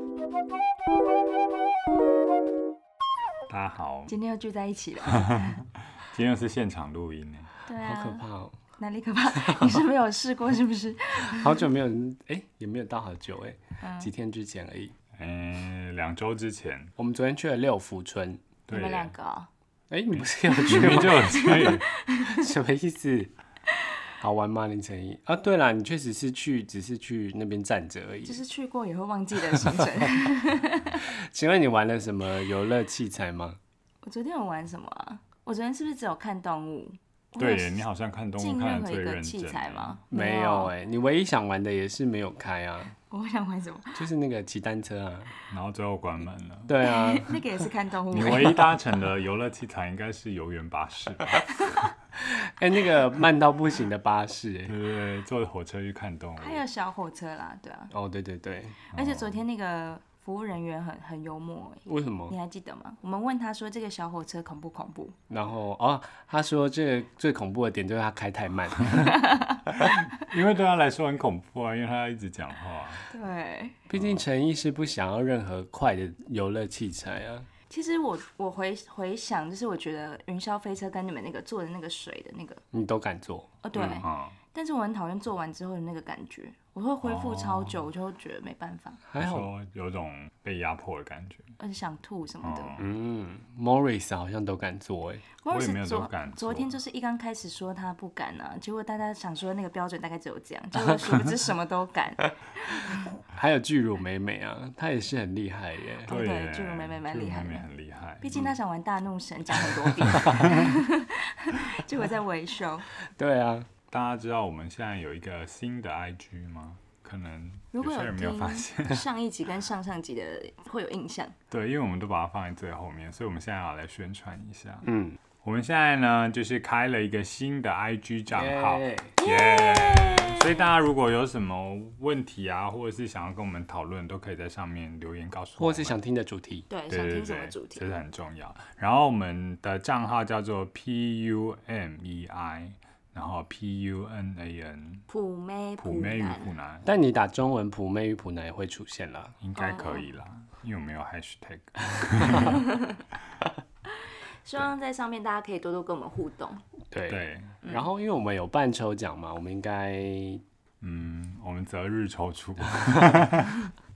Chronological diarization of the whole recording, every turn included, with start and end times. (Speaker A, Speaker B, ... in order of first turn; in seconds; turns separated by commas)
Speaker A: 3.5-4.1, Speaker B: 4.1-5.6, Speaker A: 5.1-7.5, Speaker B: 7.7-8.2, Speaker C: 7.8-8.6, Speaker B: 8.8-11.6, Speaker C: 9.3-9.8, Speaker C: 11.2-14.9, Speaker B: 13.8-14.1, Speaker A: 15.1-16.9, Speaker C: 17.0-18.4, Speaker A: 18.7-19.1, Speaker B: 18.7-19.5, Speaker C: 19.9-23.3, Speaker A: 20.1-21.9, Speaker B: 20.7-22.5, Speaker C: 24.2-28.4, Speaker B: 28.2-31.1, Speaker C: 30.9-33.6, Speaker B: 34.0-37.8, Speaker A: 37.4-40.0, Speaker B: 38.4-40.7, Speaker C: 40.1-42.9, Speaker B: 43.1-44.0, Speaker C: 43.9-45.3, Speaker A: 45.5-46.7, Speaker C: 46.7-47.4, Speaker B: 46.8-48.7, Speaker A: 48.1-51.9, Speaker C: 52.1-54.7, Speaker A: 54.7-56.6, Speaker B: 56.4-57.9, Speaker C: 57.9-58.8, Speaker B: 58.9-65.1, Speaker A: 58.9-59.4, Speaker C: 61.9-62.3, Speaker C: 65.3-69.2, Speaker B: 68.9-69.7, Speaker A: 69.7-73.1, Speaker B: 73.1-73.8, Speaker C: 73.9-77.5, Speaker A: 73.9-74.2, Speaker B: 77.7-82.6, Speaker C: 82.7-84.0, Speaker B: 83.6-89.0, Speaker A: 83.9-84.4, Speaker A: 87.0-87.8, Speaker C: 89.1-89.5, Speaker A: 89.2-91.5, Speaker B: 91.6-92.7, Speaker A: 92.4-92.9, Speaker C: 92.8-95.2, Speaker B: 95.4-103.0, Speaker A: 95.5-96.7, Speaker C: 103.3-106.1, Speaker B: 106.0-107.7, Speaker A: 106.1-108.5, Speaker B: 108.2-112.8, Speaker C: 110.1-110.4, Speaker A: 110.1-110.7, Speaker C: 113.0-113.7, Speaker A: 113.9-119.0, Speaker B: 117.7-121.3, Speaker A: 121.5-124.9, Speaker C: 124.8-125.2, Speaker A: 125.4-135.9, Speaker C: 128.3-129.2, Speaker B: 129.2-130.7, Speaker C: 135.6-136.7, Speaker B: 136.7-137.9, Speaker A: 136.9-145.0, Speaker B: 145.1-146.5, Speaker A: 145.8-146.9, Speaker C: 146.8-149.3, Speaker A: 149.4-152.6, Speaker B: 149.6-150.0, Speaker B: 152.4-153.0, Speaker B: 154.0-156.6, Speaker C: 156.9-160.4, Speaker A: 157.1-157.6, Speaker A: 160.8-163.7, Speaker C: 162.7-163.2